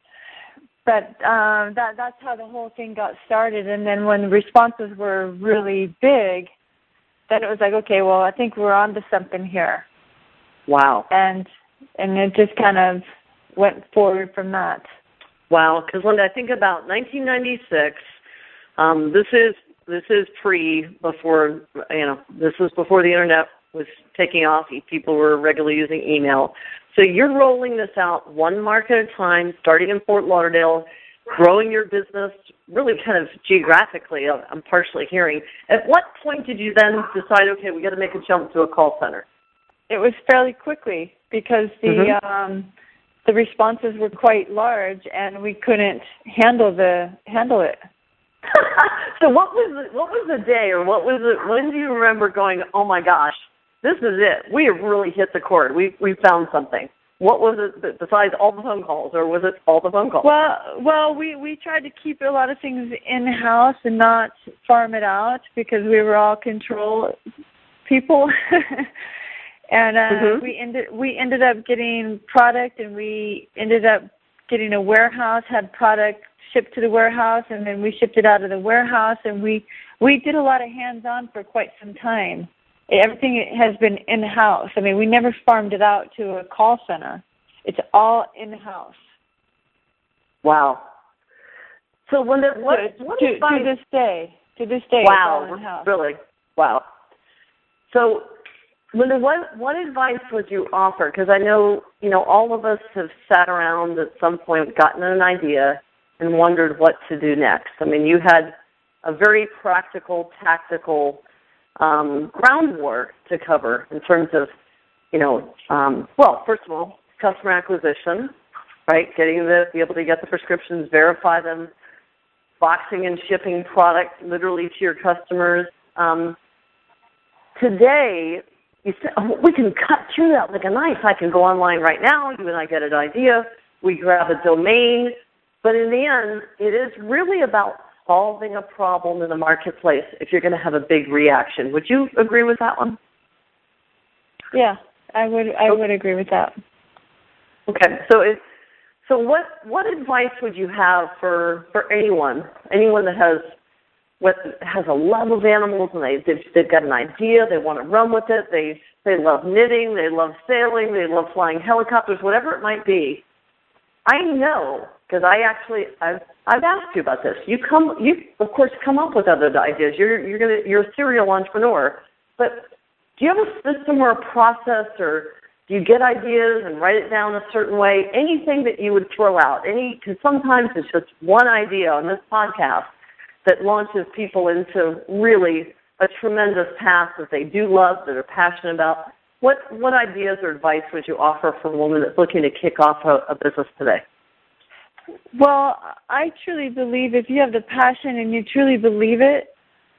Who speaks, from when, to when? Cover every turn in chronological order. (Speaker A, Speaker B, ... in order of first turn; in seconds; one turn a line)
Speaker A: 0.8-6.5
Speaker A: 7.3-9.8
Speaker B: 10.7-11.1
Speaker A: 11.1-13.0
Speaker A: 13.5-14.9
Speaker B: 15.5-18.0
Speaker B: 18.8-39.2
Speaker A: 39.9-42.7
Speaker B: 41.9-42.1
Speaker A: 43.2-47.8
Speaker B: 48.5-60.3
Speaker A: 60.2-67.2
Speaker A: 67.8-68.9
Speaker A: 69.7-89.0
Speaker B: 70.1-70.4
Speaker B: 90.4-90.8
Speaker B: 92.1-93.7
Speaker A: 92.7-95.9
Speaker B: 95.0-96.8
Speaker B: 97.9-98.3
Speaker B: 98.9-111.2
Speaker B: 111.8-114.5
Speaker B: 115.1-118.3
Speaker B: 118.9-121.7
Speaker B: 122.6-126.3
Speaker B: 127.5-143.0
Speaker A: 144.5-146.5
Speaker B: 147.7-148.4
Speaker B: 149.1-153.4
Speaker B: 154.2-163.2
Speaker B: 164.1-182.9
Speaker B: 183.4-194.0
Speaker A: 195.3-199.5